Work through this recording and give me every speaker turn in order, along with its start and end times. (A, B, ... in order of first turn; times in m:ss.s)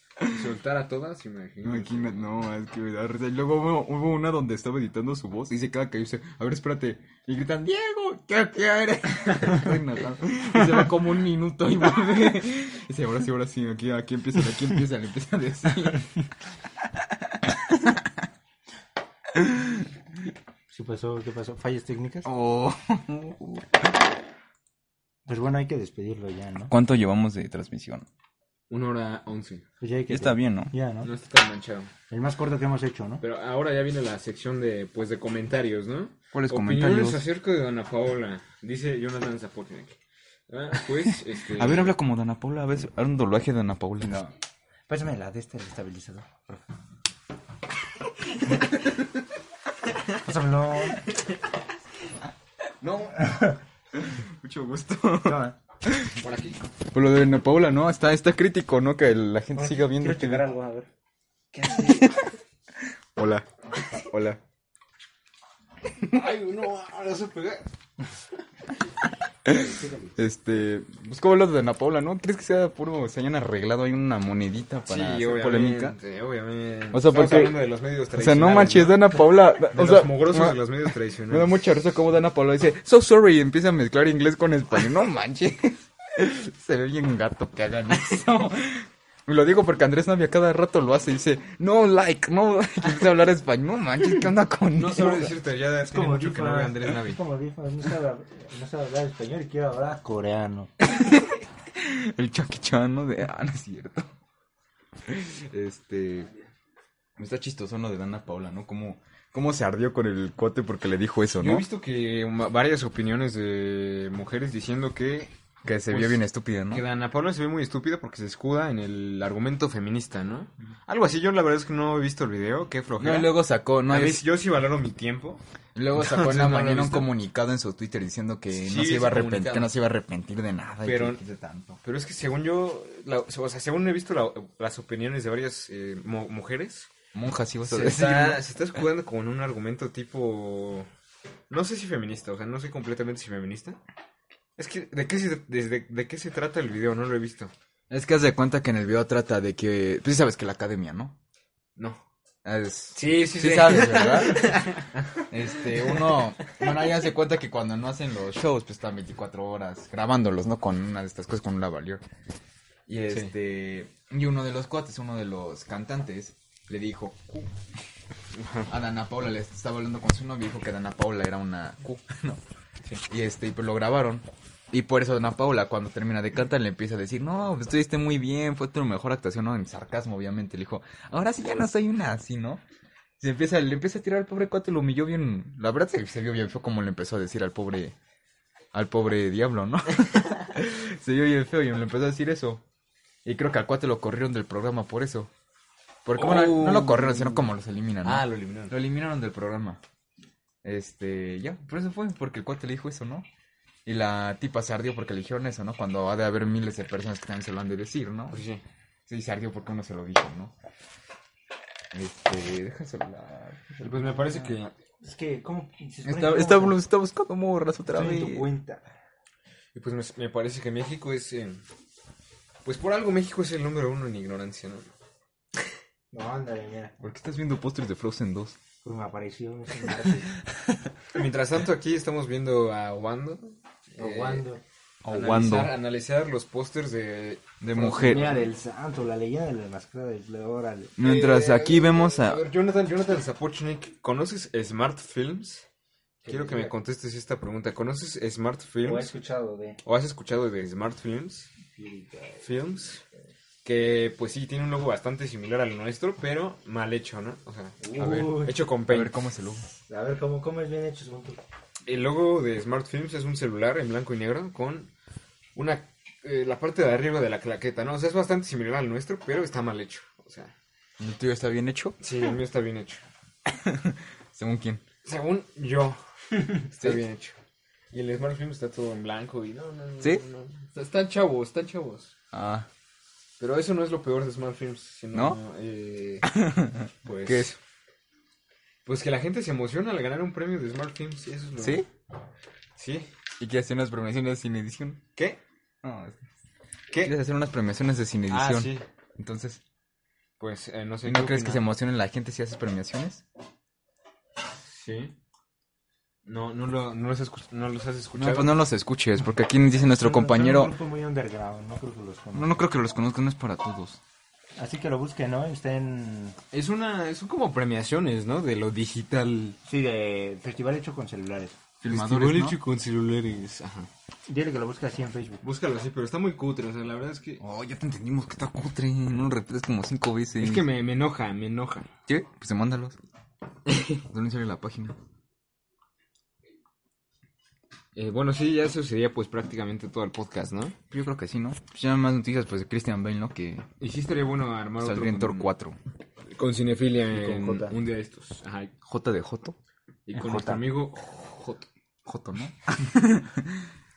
0:00.2-0:00.5 A
0:00.3-0:02.3 B
0:01.6-0:16.1 A
0:17.4-0:18.2 A
0:19.3-0:19.9 A
0:20.7-0:22.3 C
0:22.2-0:24.0 A
0:25.3-0:26.7 C
0:26.7-0:28.1 A
0:28.7-0:29.6 B
0:29.8-0:31.1 C
0:30.1-0:30.7 A
0:31.0-0:31.9 B
0:32.1-0:33.2 C
0:33.2-0:40.0 B
0:36.3-0:37.2 A
0:40.5-0:42.0 B
0:41.5-0:44.2 A
0:44.0-0:44.3 C
0:44.9-0:46.6 C
0:50.2-0:51.0 C
0:52.8-0:56.2 A
0:53.2-0:53.6 C
0:55.2-0:55.6 C
0:56.2-0:56.6 B
0:56.8-1:00.5 A
0:59.6-1:00.9 C
1:01.5-1:02.1 B
1:01.7-1:02.3 A
1:03.2-1:04.4 A
1:06.0-1:07.7 B
1:09.5-1:10.2 C
1:10.2-1:16.0 A
1:14.9-1:21.6 B
1:16.9-1:17.6 A
1:18.2-1:35.4 A
1:34.8-1:37.2 B
1:35.8-1:40.7 C
1:41.7-1:44.1 A
1:45.1-1:46.3 A
1:47.2-1:51.7 A
1:51.4-1:55.3 B
1:55.6-1:56.8 A
1:55.9-2:03.3 B
2:03.0-2:04.2 A
2:03.9-2:05.4 B
2:05.8-2:11.8 A
2:06.0-2:07.1 B
2:08.5-2:09.7 B
2:10.8-2:11.2 B
2:11.8-2:16.9 B
2:17.1-2:18.4 A
2:17.6-2:20.9 B
2:21.5-2:23.8 B
2:24.6-2:27.5 B
2:27.9-2:31.2 A
2:31.8-2:32.0 B
2:32.4-2:34.7 A
2:32.9-2:36.5 B
2:35.3-2:42.0 A
2:42.9-2:47.5 A
2:48.4-2:48.7 B
2:48.7-2:52.4 A
2:53.1-3:02.6 A
3:03.2-3:08.0 A
3:08.7-3:12.6 A
3:13.2-3:15.3 A
3:16.0-3:19.8 A
3:16.1-3:17.5 B
3:18.0-3:18.8 B
3:20.6-3:23.3 A
3:23.9-3:28.4 A
3:28.3-3:28.6 B
3:29.1-3:30.5 A
3:31.9-3:34.2 A
3:33.8-3:34.7 B
3:34.2-3:36.8 C
3:36.1-3:38.5 A
3:37.9-3:38.8 C
3:39.8-3:41.6 B
3:42.6-3:44.9 B
3:46.1-3:46.9 C
3:47.0-3:48.6 A
3:48.8-3:50.4 C
3:51.1-3:54.5 B
3:54.0-3:54.6 C
3:55.0-3:55.8 A
3:55.1-3:58.5 B
3:57.6-3:58.4 A
3:57.8-4:00.9 C
4:01.0-4:02.4 A
4:01.0-4:05.7 B
4:06.2-4:06.7 C
4:06.3-4:09.1 B
4:08.8-4:09.8 C
4:09.8-4:11.5 B
4:11.8-4:12.4 C
4:12.4-4:13.0 B
4:13.6-4:19.2 B
4:17.8-4:18.6 C
4:18.9-4:19.7 A
4:19.9-4:21.4 C
4:21.9-4:24.9 B
4:25.6-4:30.5 B
4:31.0-4:32.0 A
4:32.0-4:33.0 B
4:33.5-4:34.8 A
4:35.0-4:37.4 B
4:36.8-4:37.0 A
4:37.9-4:42.2 B
4:42.3-4:42.7 A
4:43.4-4:46.3 B
4:45.1-4:45.4 A
4:46.2-4:47.6 A
4:47.0-4:47.6 B
4:48.9-4:51.8 B
4:51.6-4:51.9 A
4:52.8-4:53.1 B
4:53.4-4:55.0 A
4:55.8-4:56.2 A
4:57.0-4:59.6 A
4:58.3-4:58.8 B
5:00.4-5:01.6 B
5:01.0-5:03.2 A
5:04.7-5:05.1 B
5:06.2-5:08.6 B
5:08.1-5:10.7 A
5:09.7-5:12.6 C
5:12.3-5:14.0 A
5:14.6-5:16.4 C
5:16.5-5:19.6 B
5:19.7-5:21.6 C
5:21.8-5:22.6 A
5:21.9-5:23.9 B
5:24.3-5:25.4 C
5:25.4-5:27.4 B
5:27.4-5:30.7 A
5:30.4-5:31.9 B
5:32.1-5:33.0 A
5:34.0-5:35.0 A
5:38.0-5:40.8 B
5:40.9-5:43.7 A
5:43.8-5:45.5 B
5:44.8-5:45.8 A
5:46.3-5:48.7 B
5:47.1-5:47.8 C
5:48.8-5:49.6 A
5:50.1-5:51.7 B
5:50.1-5:50.6 C
5:52.0-5:53.7 A